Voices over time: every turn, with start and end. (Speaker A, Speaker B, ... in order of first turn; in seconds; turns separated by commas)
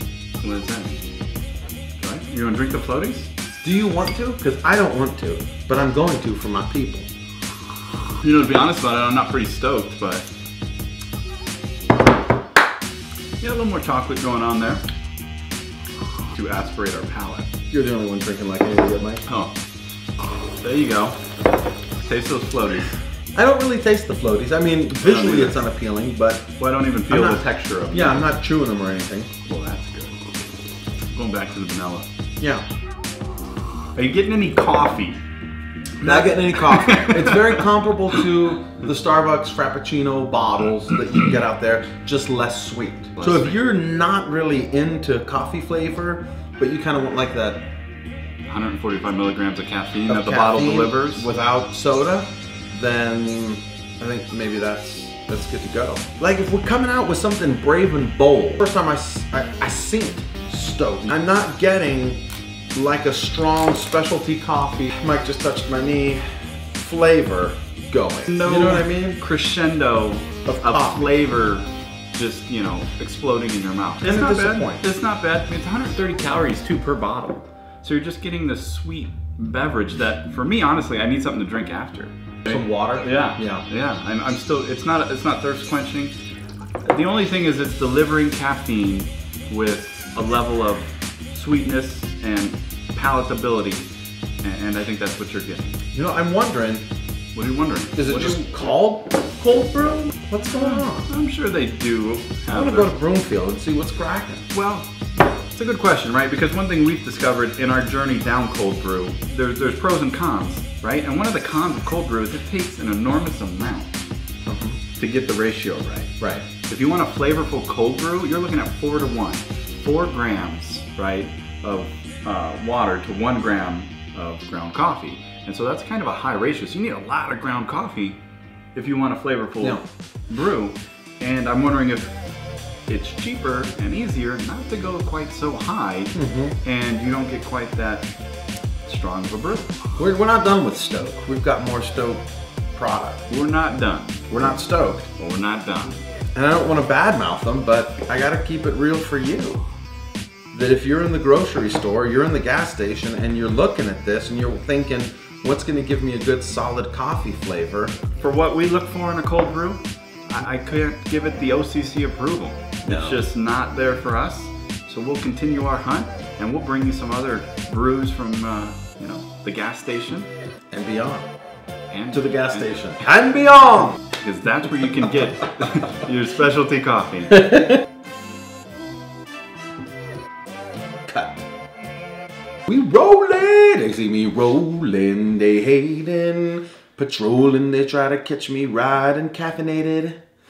Speaker A: 0.4-1.1, Speaker A: 2.0-3.3, Speaker B: 3.6-7.1, Speaker A: 8.2-10.3, Speaker A: 13.4-14.8, Speaker A: 16.3-17.5, Speaker B: 17.7-19.2, Speaker A: 19.3-19.5, Speaker A: 20.5-21.2, Speaker A: 22.0-23.0, Speaker B: 23.4-26.5, Speaker A: 25.0-25.6, Speaker A: 26.6-28.3, Speaker B: 27.1-29.3, Speaker A: 29.5-30.2, Speaker A: 31.1-32.1, Speaker B: 32.4-32.6, Speaker A: 34.0-35.2, Speaker A: 36.0-38.2, Speaker B: 36.0-47.7, Speaker A: 43.2-43.5, Speaker A: 48.5-51.3, Speaker B: 50.1-62.2, Speaker B: 62.7-69.2, Speaker A: 68.2-86.2, Speaker B: 70.5-71.1, Speaker B: 74.0-74.8, Speaker B: 82.5-83.7, Speaker A: 86.8-93.9, Speaker A: 94.4-95.8, Speaker B: 95.9-96.9, Speaker A: 97.3-98.4, Speaker B: 98.0-101.1, Speaker A: 100.4-102.9, Speaker B: 102.5-104.5, Speaker A: 104.5-104.9, Speaker A: 105.5-114.0, Speaker B: 114.5-114.8, Speaker A: 115.0-128.2, Speaker B: 116.2-116.5, Speaker A: 128.8-132.2, Speaker A: 132.9-138.1, Speaker B: 136.2-136.6, Speaker A: 138.9-139.8, Speaker B: 140.0-143.3, Speaker A: 143.3-144.5, Speaker B: 144.3-145.1, Speaker A: 145.2-146.1, Speaker B: 146.3-149.6, Speaker B: 150.5-157.9, Speaker A: 158.2-170.3, Speaker B: 162.8-163.2, Speaker B: 170.7-171.3, Speaker A: 171.9-172.8, Speaker B: 172.1-174.0, Speaker A: 174.1-177.5, Speaker B: 177.3-177.8, Speaker B: 181.1-181.4, Speaker B: 182.7-190.2